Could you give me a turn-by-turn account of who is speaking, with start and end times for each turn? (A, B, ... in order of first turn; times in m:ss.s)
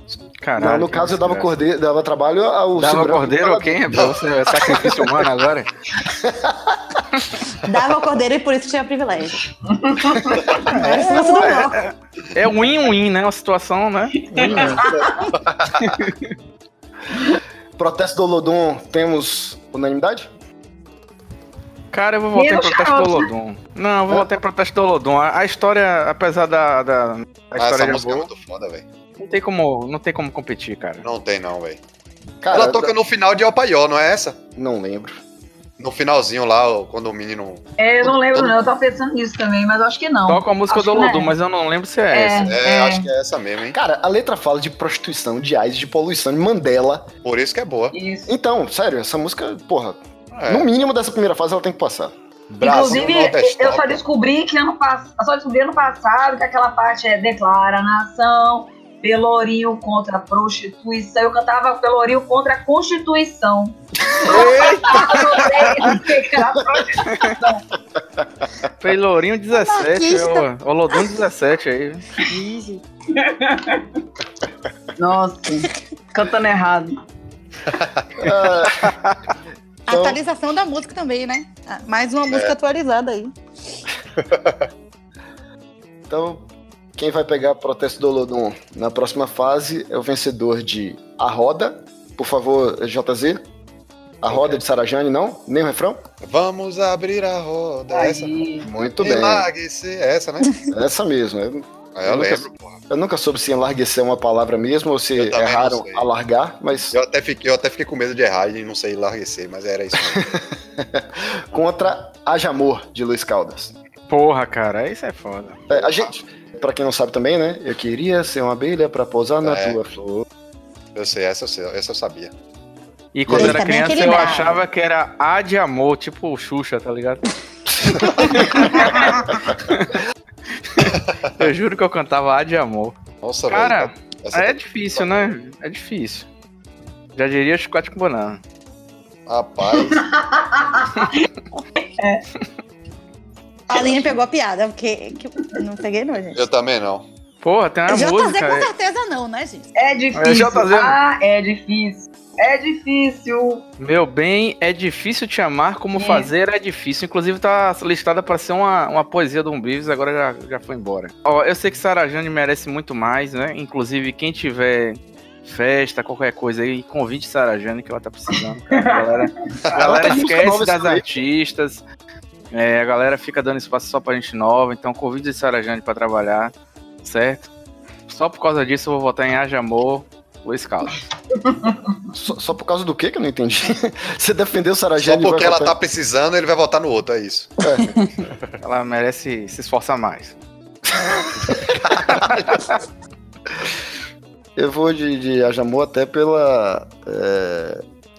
0:00.4-0:01.5 A
0:00.6-0:03.9 B
0:02.8-0:05.7 A
0:06.2-0:06.7 B
0:07.6-0:09.4 C
0:09.7-0:10.6 D
0:10.6-0:14.2 A
0:10.7-0:11.8 C
0:14.3-0:15.3 D
0:14.3-0:15.3 B
0:15.8-0:16.3 A
0:17.8-0:20.3 B
0:21.9-0:28.3 A
0:22.3-0:23.3 D
0:27.6-0:28.8 E
0:29.2-0:31.0 A
0:31.0-0:31.8 E
0:32.4-0:32.9 B
0:32.5-0:34.4 E
0:34.6-0:35.2 B
0:35.8-0:37.6 E
0:37.8-0:41.3 D
0:38.3-0:38.6 E
0:40.3-0:42.5 A
0:42.1-0:43.1 D
0:42.4-0:43.8 E
0:43.7-0:47.1 B
0:47.2-0:48.0 E
0:47.9-0:48.3 D
0:48.3-0:52.1 B
0:50.3-0:50.7 E
0:52.5-0:54.0 E
0:52.6-1:07.6 D
1:04.2-1:05.6 A
1:07.0-1:07.4 A
1:08.8-1:12.0 A
1:09.5-1:10.5 C
1:12.3-1:12.8 C
1:13.1-1:13.8 D
1:15.0-1:17.0 D
1:18.2-1:18.9 B
1:19.9-1:23.3 C
1:19.9-1:20.2 B
1:24.2-1:24.5 E
1:26.1-1:33.4 B
1:34.2-1:36.0 B
1:34.3-1:34.6 E
1:36.2-1:38.4 E
1:37.9-1:38.7 D
1:38.6-1:39.5 B
1:39.0-1:40.5 E
1:40.7-1:47.0 B
1:42.0-1:42.8 E
1:45.1-1:46.1 E
1:46.9-1:50.3 E
1:50.0-1:53.7 B
1:54.1-1:55.6 A
1:55.7-2:00.3 B
1:59.4-1:59.8 E
2:00.9-2:02.3 E
2:03.1-2:07.2 A
2:03.3-2:03.6 B
2:03.3-2:04.6 C
2:07.9-2:10.0 A
2:10.7-2:13.0 A
2:13.2-2:15.3 E
2:13.5-2:16.3 A
2:17.2-2:18.4 A
2:19.3-2:20.0 E
2:19.7-2:21.1 D
2:22.0-2:22.2 D
2:23.7-2:26.4 C
2:26.3-2:27.0 E
2:27.4-2:28.7 A
2:27.9-2:29.7 C
2:29.7-2:33.6 D
2:30.1-2:31.0 A
2:33.8-2:51.8 A
2:35.9-2:36.3 D
2:48.7-2:49.2 D
2:49.7-2:51.1 B
2:52.5-2:56.5 A
2:57.0-2:57.5 A
2:58.1-3:01.0 A
3:01.4-3:01.9 D
3:02.1-3:05.7 B
3:05.0-3:07.5 E
3:07.6-3:07.9 B
3:07.8-3:08.1 C
3:08.6-3:10.4 A
3:11.0-3:11.5 B
3:14.6-3:17.8 B